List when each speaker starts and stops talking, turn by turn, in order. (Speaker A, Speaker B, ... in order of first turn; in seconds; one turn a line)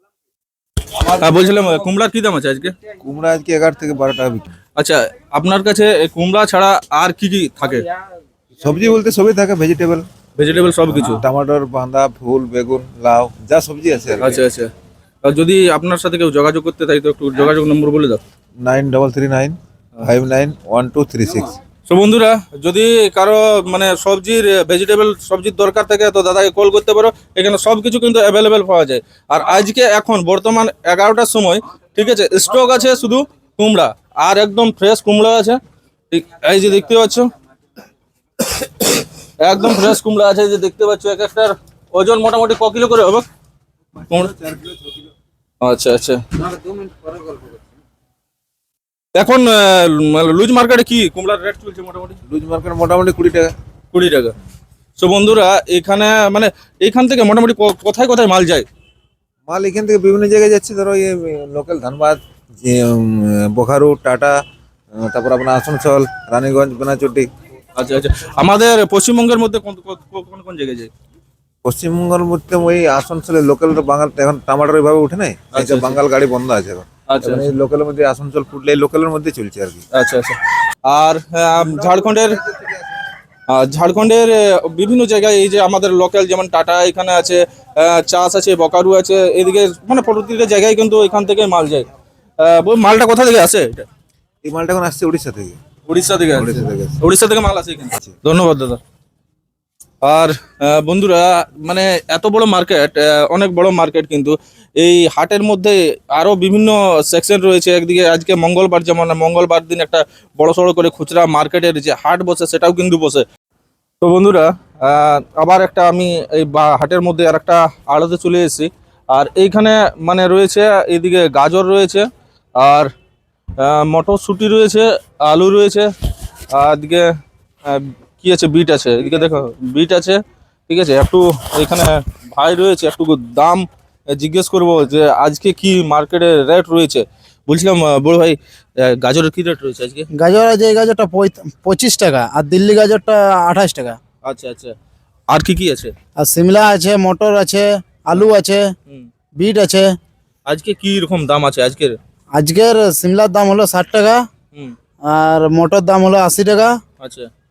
Speaker A: 1.1-2.7
Speaker B: 3.0-4.5
Speaker A: 4.8-7.9
Speaker B: 8.6-10.1
Speaker A: 10.4-11.2
Speaker B: 10.9-14.4
Speaker A: 14.2-14.7
Speaker A: 15.2-18.2
Speaker B: 18.6-21.6
Speaker A: 21.9-35.6
Speaker A: 36.1-37.3
Speaker A: 39.4-43.3
Speaker A: 44.1-44.3
Speaker A: 45.6-46.2
Speaker A: 49.2-52.2
Speaker B: 52.3-53.5
Speaker A: 53.9-54.3
Speaker A: 55.0-58.7
Speaker B: 59.5-64.4
Speaker B: 65.0-67.3
Speaker A: 67.8-70.9
Speaker B: 71.6-79.8
Speaker A: 75.5-76.0
Speaker A: 77.1-77.5
Speaker A: 80.0-82.4
Speaker B: 81.6-82.8
Speaker A: 83.5-91.9
Speaker A: 92.4-93.9
Speaker B: 94.4-95.6
Speaker A: 95.9-98.8
Speaker B: 96.3-97.0
Speaker A: 100.0-113.2
Speaker A: 114.0-122.1
Speaker A: 122.6-122.9
Speaker A: 123.6-125.9
Speaker A: 126.5-127.1
Speaker A: 127.7-140.1
Speaker C: 140.2-144.0
Speaker A: 144.2-144.8
Speaker A: 145.3-145.9
Speaker C: 146.2-148.7
Speaker C: 149.4-149.9
Speaker A: 150.5-152.0
Speaker C: 152.3-154.2
Speaker C: 155.1-156.8
Speaker A: 157.0-157.3